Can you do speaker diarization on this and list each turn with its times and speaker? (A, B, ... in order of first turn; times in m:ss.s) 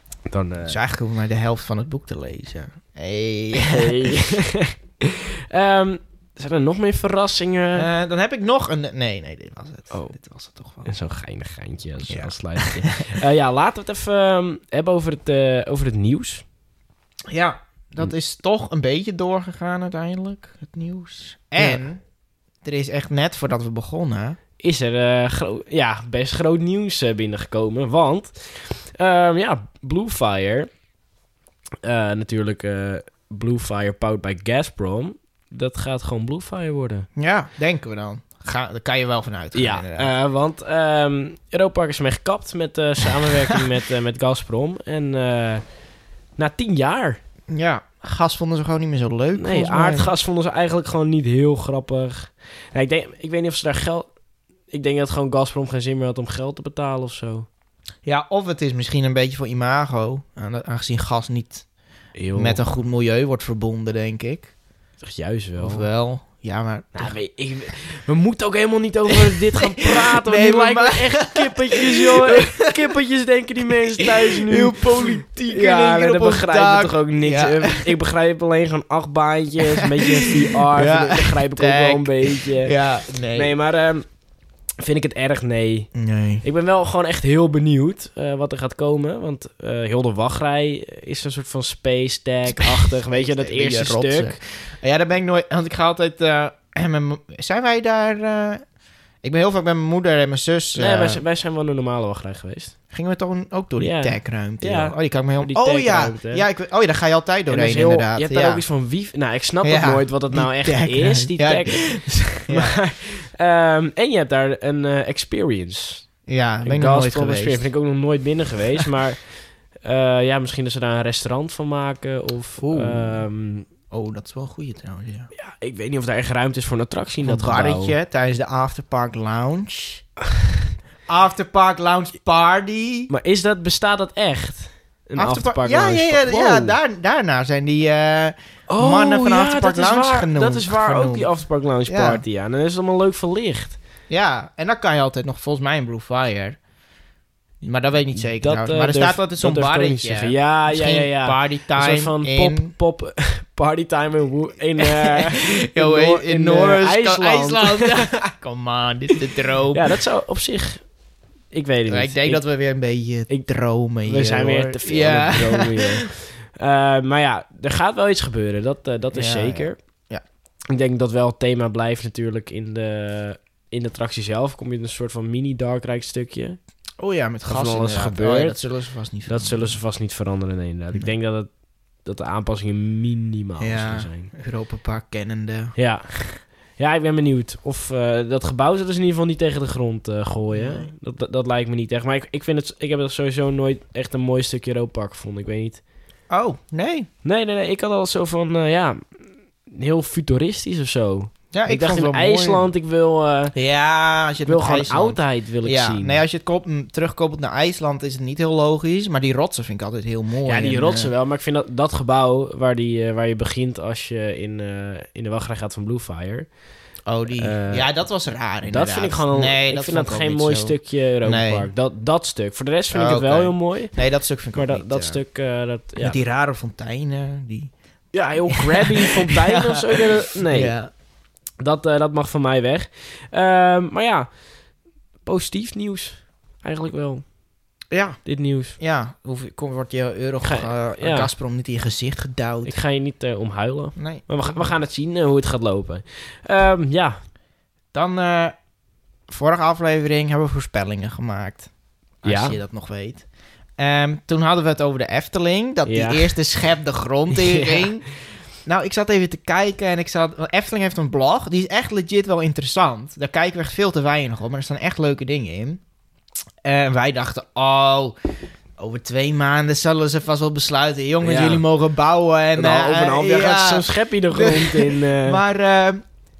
0:00.3-0:00.8 A
0:00.6-0:04.2 B
0:03.5-0:07.9 A
0:07.8-0:10.9 B
0:09.9-0:10.2 A
0:10.8-0:16.4 A
0:12.1-0:13.0 B
0:17.3-0:22.0 B
0:21.6-0:21.8 A
0:22.6-0:24.4 B
0:24.6-0:30.7 A
0:31.8-0:37.1 A
0:37.2-0:40.1 B
0:39.6-0:45.6 A
0:46.4-0:47.2 A
0:47.5-0:50.1 B
0:49.4-0:54.1 A
0:54.7-0:57.5 A
0:58.0-1:01.7 B
1:02.2-1:02.6 A
1:02.4-1:04.5 B
1:05.0-1:05.9 A
1:05.6-1:07.2 B
1:07.0-1:22.8 A
1:09.1-1:12.8 B
1:13.9-1:17.9 B
1:19.8-1:23.5 B
1:23.3-1:24.0 A
1:24.8-1:25.9 A
1:25.9-1:26.4 B
1:26.4-1:34.4 A
1:32.5-1:38.6 B
1:39.2-1:41.2 B
1:40.8-1:42.8 A
1:42.9-1:48.6 B
1:43.8-1:46.4 A
1:47.5-1:51.9 A
1:49.6-1:52.8 B
1:52.5-1:56.1 A
1:56.3-1:57.6 B
1:56.6-1:59.2 A
1:59.8-2:03.7 A
2:02.6-2:03.3 B
2:03.9-2:05.3 B
2:05.3-2:08.0 A
2:07.2-2:10.0 B
2:11.1-2:13.1 B
2:13.1-2:16.8 A
2:15.2-2:21.3 B
2:18.7-2:23.8 A
2:21.9-2:22.2 B
2:24.1-2:26.6 B
2:27.6-2:32.7 B
2:28.2-2:38.1 A
2:34.8-2:39.9 B
2:39.7-2:40.9 A
2:41.5-2:42.4 A
2:41.9-2:46.1 B
2:44.0-2:49.8 A
2:49.1-2:50.2 B
2:50.7-2:56.6 A
2:57.0-2:59.8 B
2:57.5-2:58.6 A
2:59.3-3:01.5 A
3:02.0-3:04.3 A
3:03.6-3:05.8 B
3:05.8-3:15.8 A
3:10.5-3:10.9 B
3:16.3-3:17.1 B
3:17.2-3:19.1 A
3:19.7-3:23.5 A
3:21.5-3:22.7 B
3:23.5-3:31.1 B
3:24.4-3:26.2 A
3:30.4-3:36.5 A
3:37.1-3:41.7 B
3:37.4-3:37.9 A
3:38.6-3:44.0 A
3:42.9-3:45.2 B
3:44.5-3:46.2 A
3:46.0-3:47.7 B
3:48.1-3:50.8 A
3:48.5-3:50.9 B
3:51.6-3:54.3 A
3:55.2-3:57.3 A
3:57.9-3:58.2 B
3:58.2-3:58.8 A
3:58.8-4:02.8 B
4:00.4-4:01.3 A
4:02.6-4:07.2 A
4:04.0-4:04.7 B
4:07.9-4:08.6 B
4:09.3-4:11.7 B
4:12.2-4:13.2 B
4:12.2-4:12.6 A
4:13.8-4:18.1 B
4:15.9-4:16.4 A
4:17.3-4:17.9 A
4:18.6-4:25.8 B
4:26.6-4:28.2 B
4:28.8-4:36.0 B
4:31.2-4:31.6 A
4:32.6-4:35.4 A